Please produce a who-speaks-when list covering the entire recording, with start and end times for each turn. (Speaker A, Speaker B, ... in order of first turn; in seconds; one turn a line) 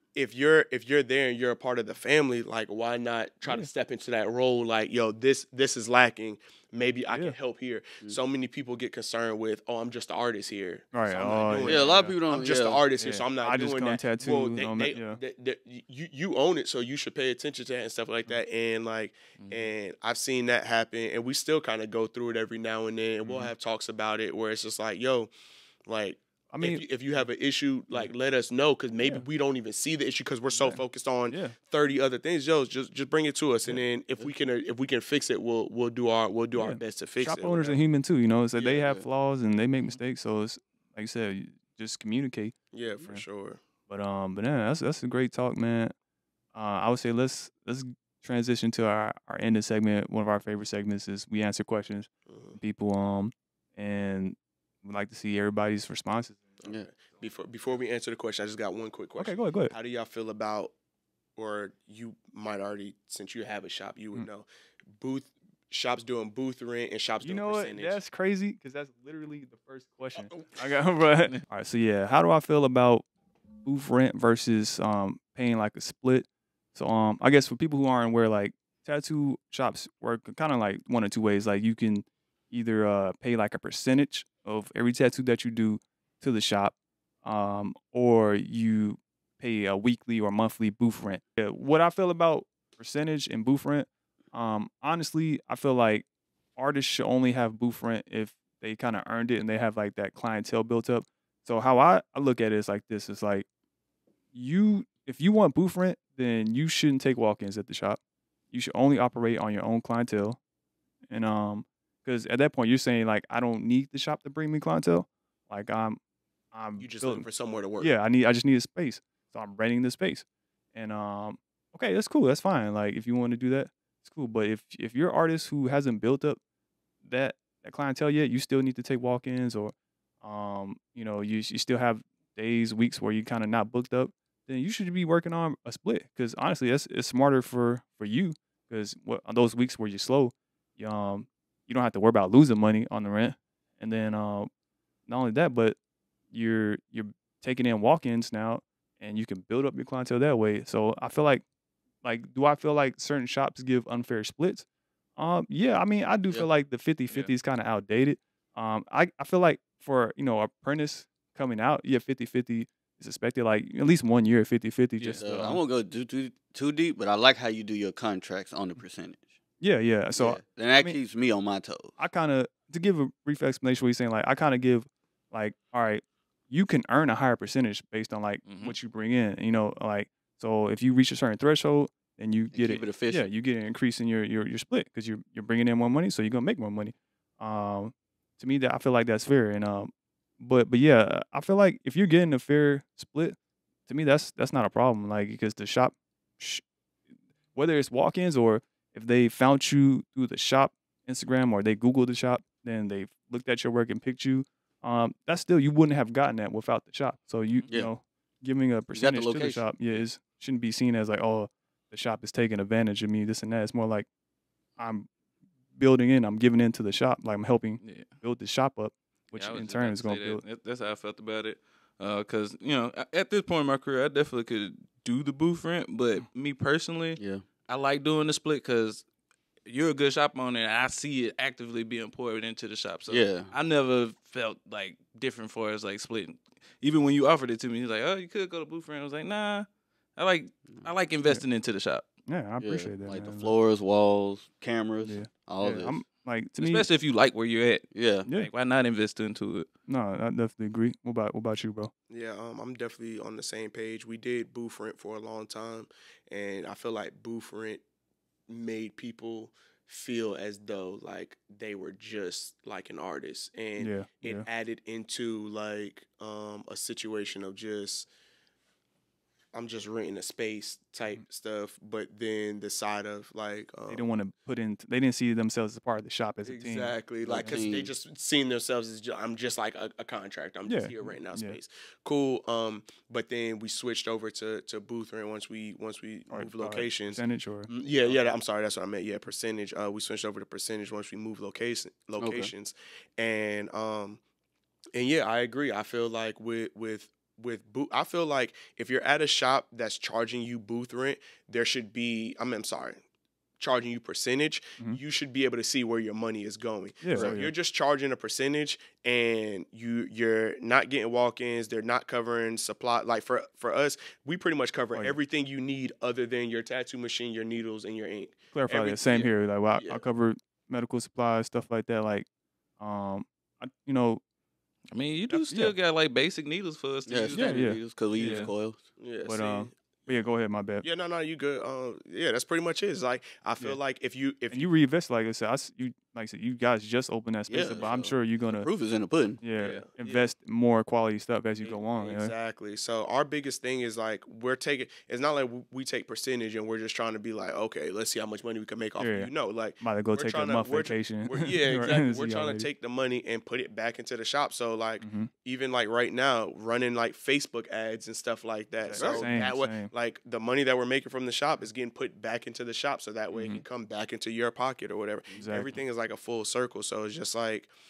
Speaker A: 0.1-25.3
Speaker B: 10.9-12.2
Speaker C: 11.6-12.8
Speaker B: 13.0-15.2
Speaker D: 19.4-19.7
Speaker B: 23.2-23.5
Speaker A: 25.9-37.8
Speaker B: 26.5-26.8
Speaker B: 29.0-29.2
Speaker B: 30.5-31.6
Speaker B: 36.5-43.2
Speaker A: 38.6-38.8
Speaker A: 42.7-43.6
Speaker B: 43.9-45.9
Speaker B: 46.5-56.4
Speaker A: 52.3-52.6
Speaker A: 56.6-60.7
Speaker B: 59.2-59.7
Speaker A: 61.4-68.0
Speaker B: 67.2-73.0
Speaker A: 70.2-70.5
Speaker B: 73.6-96.0
Speaker B: 96.5-103.5
Speaker B: 104.3-108.0
Speaker B: 108.5-110.4
Speaker B: 111.1-116.0
Speaker B: 116.5-117.2
Speaker A: 116.8-117.9
Speaker B: 117.8-126.4
Speaker B: 127.0-144.5
Speaker B: 145.1-145.8
Speaker B: 146.3-151.4
Speaker B: 152.0-154.7
Speaker B: 155.2-165.6
Speaker D: 165.0-165.2
Speaker C: 165.2-169.2
Speaker B: 169.6-171.0
Speaker C: 170.2-171.9
Speaker B: 172.0-193.3
Speaker D: 178.4-178.8
Speaker C: 182.5-183.3
Speaker B: 193.9-196.6
Speaker B: 197.5-214.1
Speaker C: 208.9-209.6
Speaker B: 214.8-215.1
Speaker B: 215.8-220.4
Speaker D: 217.8-218.1
Speaker D: 219.4-229.0
Speaker C: 227.2-227.4
Speaker D: 229.7-242.1
Speaker C: 233.1-233.5
Speaker B: 242.3-243.5
Speaker C: 242.6-246.0
Speaker B: 245.0-246.8
Speaker D: 246.6-249.7
Speaker C: 247.9-248.3
Speaker B: 249.9-251.9
Speaker A: 252.1-257.8
Speaker A: 258.5-268.1
Speaker B: 263.8-264.5
Speaker A: 269.5-274.0
Speaker B: 273.9-276.9
Speaker A: 276.4-294.2
Speaker C: 277.2-277.9
Speaker B: 280.6-281.6
Speaker B: 286.3-287.7
Speaker C: 292.2-292.5
Speaker B: 292.2-292.5
Speaker A: 294.9-303.0
Speaker A: 303.6-320.0
Speaker B: 307.0-307.5
Speaker B: 318.5-322.3
Speaker B: 322.8-324.2
Speaker D: 324.9-328.4
Speaker B: 325.3-325.8
Speaker C: 327.1-328.8
Speaker B: 327.3-328.5
Speaker A: 329.0-330.2
Speaker B: 329.2-330.8
Speaker A: 330.8-334.7
Speaker B: 334.5-338.7
Speaker C: 337.5-339.4
Speaker B: 339.4-342.3
Speaker A: 339.6-340.2
Speaker A: 341.6-367.7
Speaker B: 349.0-352.7
Speaker B: 355.0-355.3
Speaker B: 358.8-359.9
Speaker C: 358.9-359.4
Speaker B: 363.3-363.6
Speaker C: 365.3-365.6
Speaker B: 365.4-365.8